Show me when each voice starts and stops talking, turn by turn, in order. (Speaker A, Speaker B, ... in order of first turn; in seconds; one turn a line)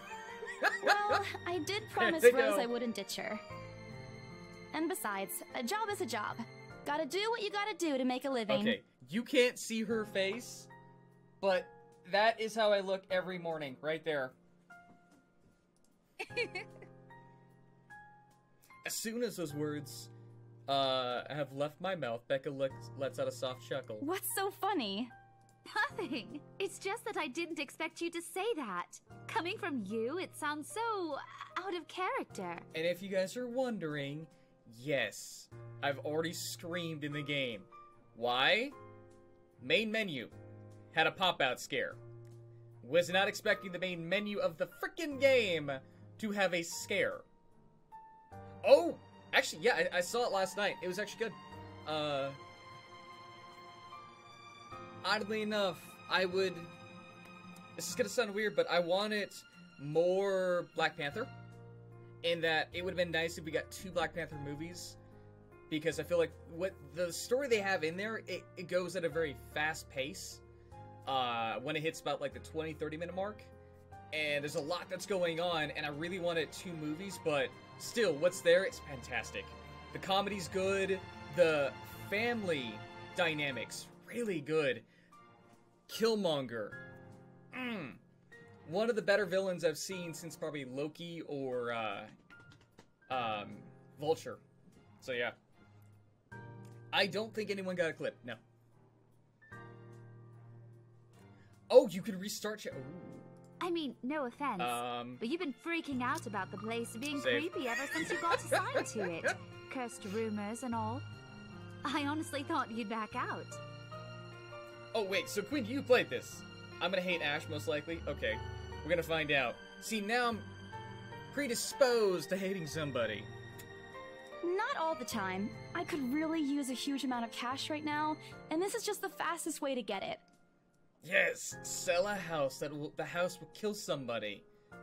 Speaker A: 0.5-1.2
Speaker B: 0.8-3.4
Speaker A: 2.0-2.7
Speaker B: 4.7-8.8
Speaker A: 8.5-10.7
Speaker A: 11.4-14.3
Speaker A: 18.8-20.1
Speaker A: 20.7-24.1
Speaker B: 24.0-25.1
Speaker C: 25.6-32.7
Speaker A: 32.7-38.8
Speaker A: 39.6-40.3
Speaker A: 40.9-42.0
Speaker A: 42.8-47.2
Speaker A: 48.6-52.4
Speaker A: 55.0-56.7
Speaker A: 57.8-61.3
Speaker A: 62.2-65.0
Speaker A: 65.7-70.4
Speaker A: 71.0-73.5
Speaker A: 74.1-84.8
Speaker A: 85.9-86.8
Speaker A: 87.5-88.0
Speaker A: 88.6-92.1
Speaker A: 93.1-94.4
Speaker A: 95.0-95.3
Speaker A: 96.9-98.4
Speaker A: 101.7-103.3
Speaker C: 103.6-111.0
Speaker A: 104.6-105.2
Speaker A: 107.1-109.3
Speaker C: 111.8-113.6
Speaker A: 114.9-120.5
Speaker A: 121.3-123.3
Speaker B: 124.4-130.2
Speaker A: 131.0-134.4